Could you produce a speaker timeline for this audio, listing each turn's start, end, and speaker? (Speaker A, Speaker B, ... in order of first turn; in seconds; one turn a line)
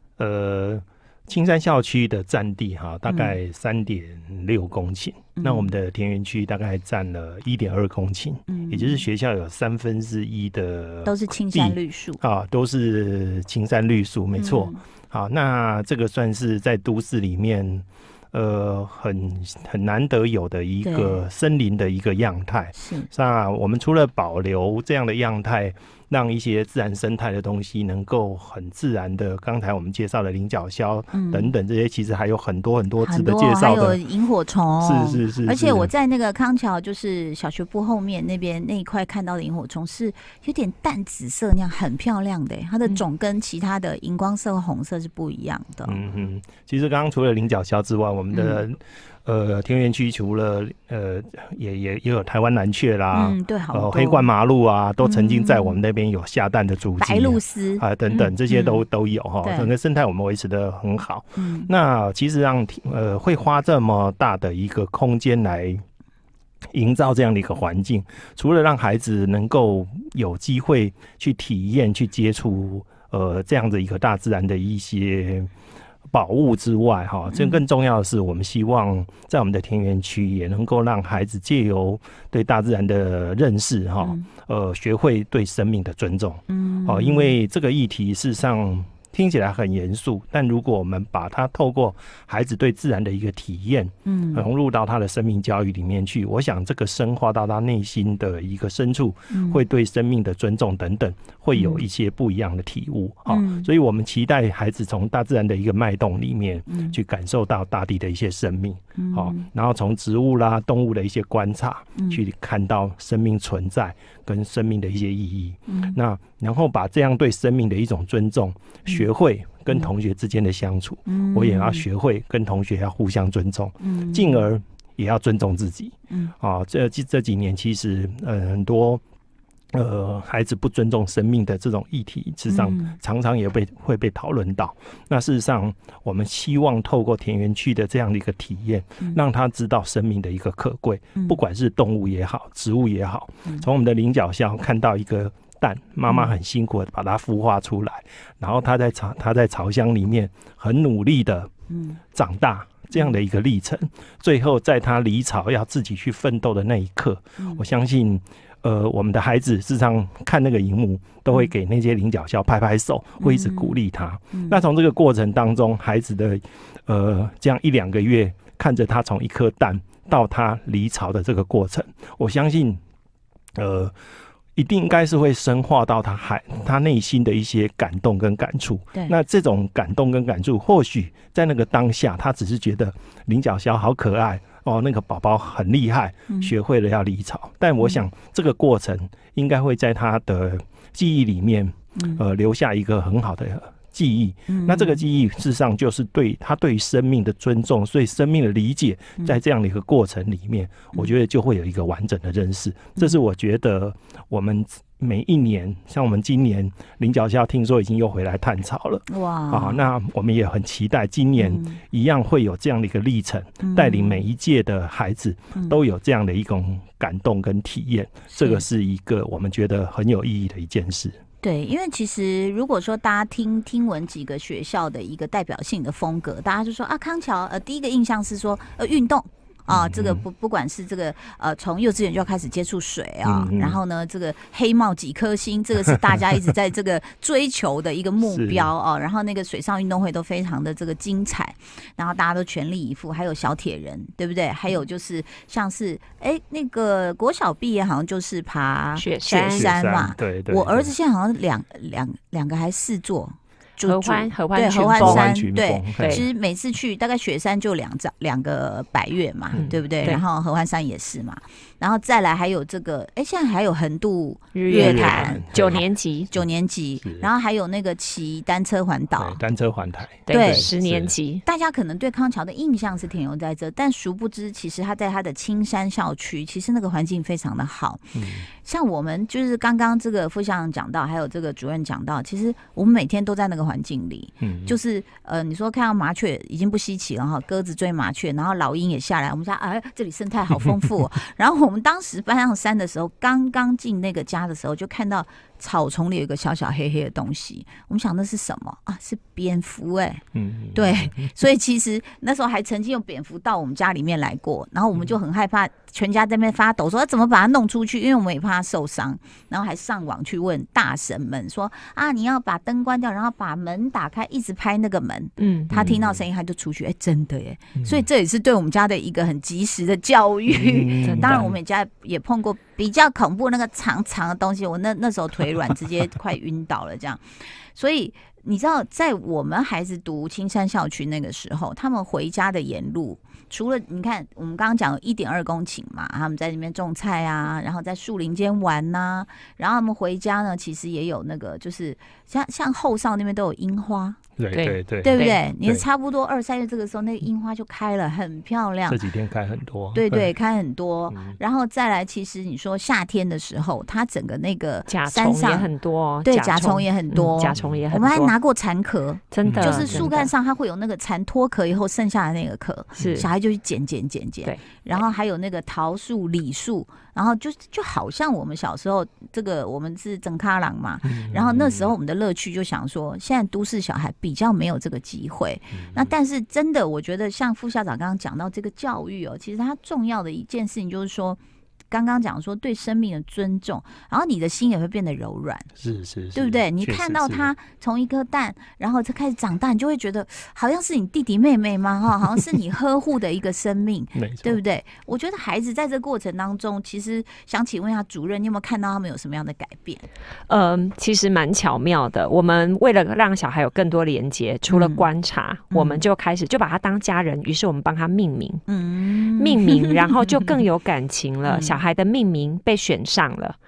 Speaker A: 0.2-34.0
Speaker B: 3.1-3.4
Speaker B: 5.4-5.7
Speaker B: 8.5-9.1
Speaker B: 11.1-12.2
Speaker B: 14.4-14.8
Speaker B: 20.8-21.2
Speaker B: 22.8-23.1
Speaker B: 31.1-31.5
Speaker B: 33.0-46.0
Speaker A: 34.8-35.9
Speaker A: 45.9-65.8
Speaker B: 48.3-48.6
Speaker B: 53.1-54.3
Speaker B: 55.0-55.8
Speaker B: 57.0-58.8
Speaker B: 59.4-59.7
Speaker B: 61.4-61.7
Speaker A: 66.7-75.5
Speaker A: 76.1-129.0
Speaker B: 77.3-77.6
Speaker B: 86.5-87.3
Speaker B: 94.1-94.5
Speaker B: 99.3-99.6
Speaker B: 101.5-101.8
Speaker B: 103.3-103.7
Speaker B: 106.7-107.0
Speaker B: 109.0-109.5
Speaker B: 112.0-112.2
Speaker B: 115.7-116.0
Speaker B: 121.1-121.9
Speaker B: 123.8-124.5
Speaker A: 129.7-151.5
Speaker B: 132.5-133.0
Speaker B: 146.1-146.3
Speaker B: 151.7-152.0
Speaker A: 152.1-172.8
Speaker B: 163.2-163.8
Speaker B: 164.3-164.6
Speaker A: 173.6-174.0
Speaker A: 174.6-221.2
Speaker B: 192.0-192.2
Speaker B: 194.5-195.0
Speaker B: 209.1-209.8
Speaker B: 211.4-211.8
Speaker B: 213.6-214.2
Speaker B: 218.3-218.6
Speaker B: 221.4-265.4
Speaker A: 229.7-230.2
Speaker A: 233.2-233.8
Speaker A: 238.2-238.7
Speaker C: 249.0-249.7
Speaker A: 249.5-250.9
Speaker C: 253.8-255.3
Speaker A: 254.9-256.3
Speaker C: 256.0-256.2
Speaker A: 259.5-259.8
Speaker C: 264.5-266.3
Speaker A: 264.7-266.5
Speaker B: 266.3-269.4
Speaker A: 267.0-267.3
Speaker A: 269.1-271.1
Speaker C: 270.3-271.4
Speaker B: 270.3-270.7
Speaker B: 271.4-344.2
Speaker A: 278.1-278.5
Speaker A: 284.4-284.8
Speaker A: 300.4-301.3
Speaker C: 315.4-315.9
Speaker A: 315.7-316.2
Speaker A: 317.8-318.1
Speaker A: 320.5-321.6
Speaker C: 321.1-321.4
Speaker A: 344.4-345.9
Speaker C: 344.5-345.4
Speaker B: 345.0-349.0
Speaker A: 348.9-350.3
Speaker B: 349.9-355.7
Speaker A: 351.1-351.4
Speaker C: 354.9-358.3
Speaker B: 356.2-381.4
Speaker A: 357.6-357.8
Speaker C: 359.3-360.3
Speaker A: 359.4-360.1
Speaker C: 363.0-363.3
Speaker A: 371.0-371.9
Speaker A: 375.8-376.1
Speaker B: 381.9-385.7
Speaker A: 385.8-387.5
Speaker B: 386.3-400.1
Speaker A: 394.1-394.6
Speaker C: 400.5-408.6
Speaker B: 404.7-405.1
Speaker B: 405.7-406.0
Speaker B: 408.7-410.6
Speaker C: 409.4-413.6
Speaker B: 411.5-411.8